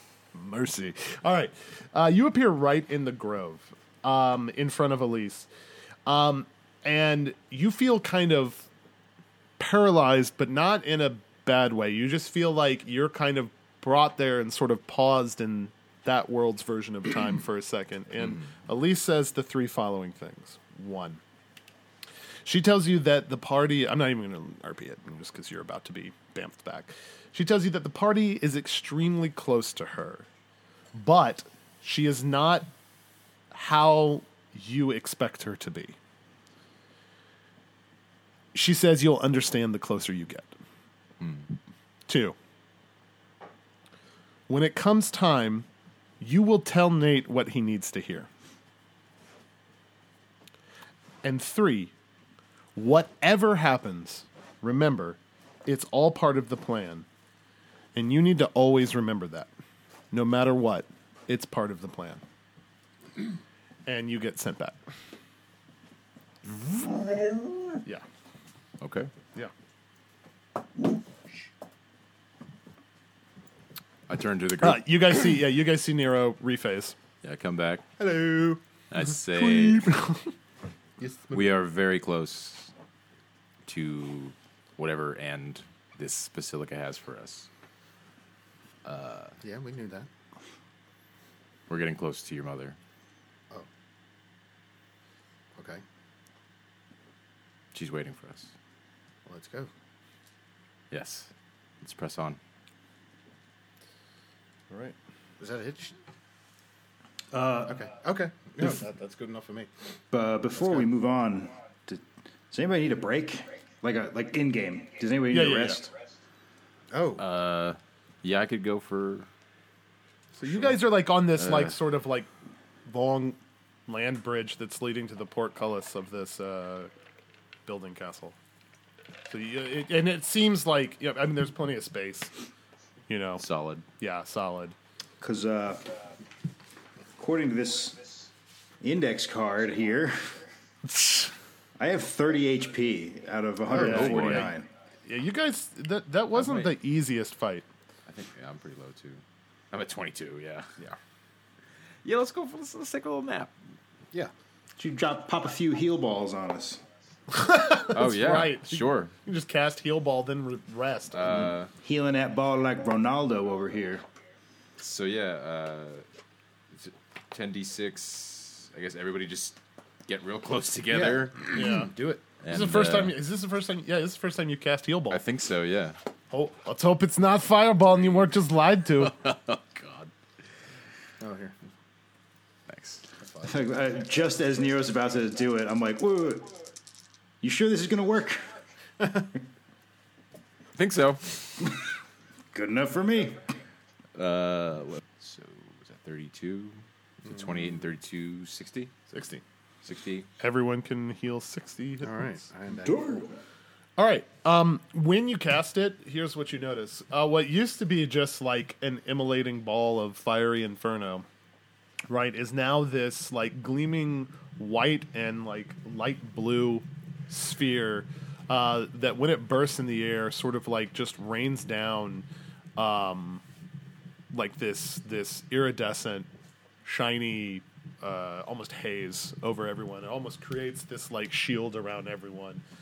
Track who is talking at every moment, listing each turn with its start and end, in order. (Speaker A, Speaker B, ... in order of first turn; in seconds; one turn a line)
Speaker A: 0.3-5.5
Speaker A: 6.1-8.7
Speaker A: 9.6-21.2
Speaker B: 18.2-18.5
Speaker A: 22.4-30.3
Speaker A: 30.9-32.7
Speaker A: 33.5-36.0
Speaker A: 38.5-40.5
Speaker B: 41.2-41.5
Speaker A: 42.1-42.4
Speaker A: 44.5-45.7
Speaker A: 46.2-48.3
Speaker A: 51.2-51.9
Speaker A: 52.8-57.1
Speaker A: 58.0-59.5
Speaker A: 60.1-62.2
Speaker A: 63.9-64.8
Speaker A: 66.6-66.9
Speaker B: 68.8-69.1
Speaker B: 74.1-75.0
Speaker A: 74.6-77.0
Speaker B: 77.2-77.9
Speaker A: 78.0-78.6
Speaker B: 78.9-80.0
Speaker A: 79.4-80.2
Speaker C: 81.0-81.6
Speaker B: 81.3-82.7
Speaker B: 83.7-87.5
Speaker B: 88.8-89.4
Speaker C: 89.4-90.1
Speaker B: 91.7-92.8
Speaker C: 95.6-95.8
Speaker B: 97.7-98.5
Speaker C: 99.3-99.7
Speaker B: 100.9-102.4
Speaker A: 104.7-105.0
Speaker C: 105.4-106.0
Speaker C: 107.6-109.7
Speaker D: 110.1-115.9
Speaker A: 115.3-115.9
Speaker C: 116.9-117.2
Speaker B: 117.2-119.3
Speaker A: 120.4-122.3
Speaker B: 121.3-121.8
Speaker A: 122.9-126.9
Speaker A: 127.7-128.4
Speaker A: 129.3-132.3
Speaker A: 133.1-133.4
Speaker B: 133.4-133.8
Speaker A: 134.0-134.8
Speaker D: 135.2-135.9
Speaker D: 137.2-138.3
Speaker D: 138.8-140.2
Speaker A: 140.9-141.3
Speaker D: 141.8-144.7
Speaker A: 143.7-147.7
Speaker B: 143.7-144.6
Speaker B: 146.3-146.8
Speaker B: 148.1-150.9
Speaker B: 152.0-153.5
Speaker D: 154.8-156.8
Speaker A: 157.3-161.5
Speaker B: 157.9-159.1
Speaker B: 161.1-161.7
Speaker D: 161.8-164.0
Speaker B: 164.8-166.0
Speaker B: 166.7-171.6
Speaker C: 170.9-172.2
Speaker A: 171.5-171.9
Speaker B: 172.4-173.2
Speaker A: 172.5-175.2
Speaker B: 175.1-176.0
Speaker A: 176.3-179.1
Speaker B: 179.0-180.1
Speaker C: 181.2-181.5
Speaker B: 182.7-183.1
Speaker C: 183.2-183.6
Speaker D: 183.4-186.5
Speaker D: 187.4-188.4
Speaker B: 190.8-191.7
Speaker D: 192.5-193.4
Speaker B: 194.2-198.9
Speaker A: 199.1-199.4
Speaker B: 199.8-200.3
Speaker A: 200.4-202.4
Speaker C: 202.0-203.2
Speaker D: 202.9-203.3
Speaker A: 204.0-211.3
Speaker A: 212.1-222.3
Speaker A: 222.8-223.4
Speaker A: 224.3-226.3
Speaker A: 226.8-232.6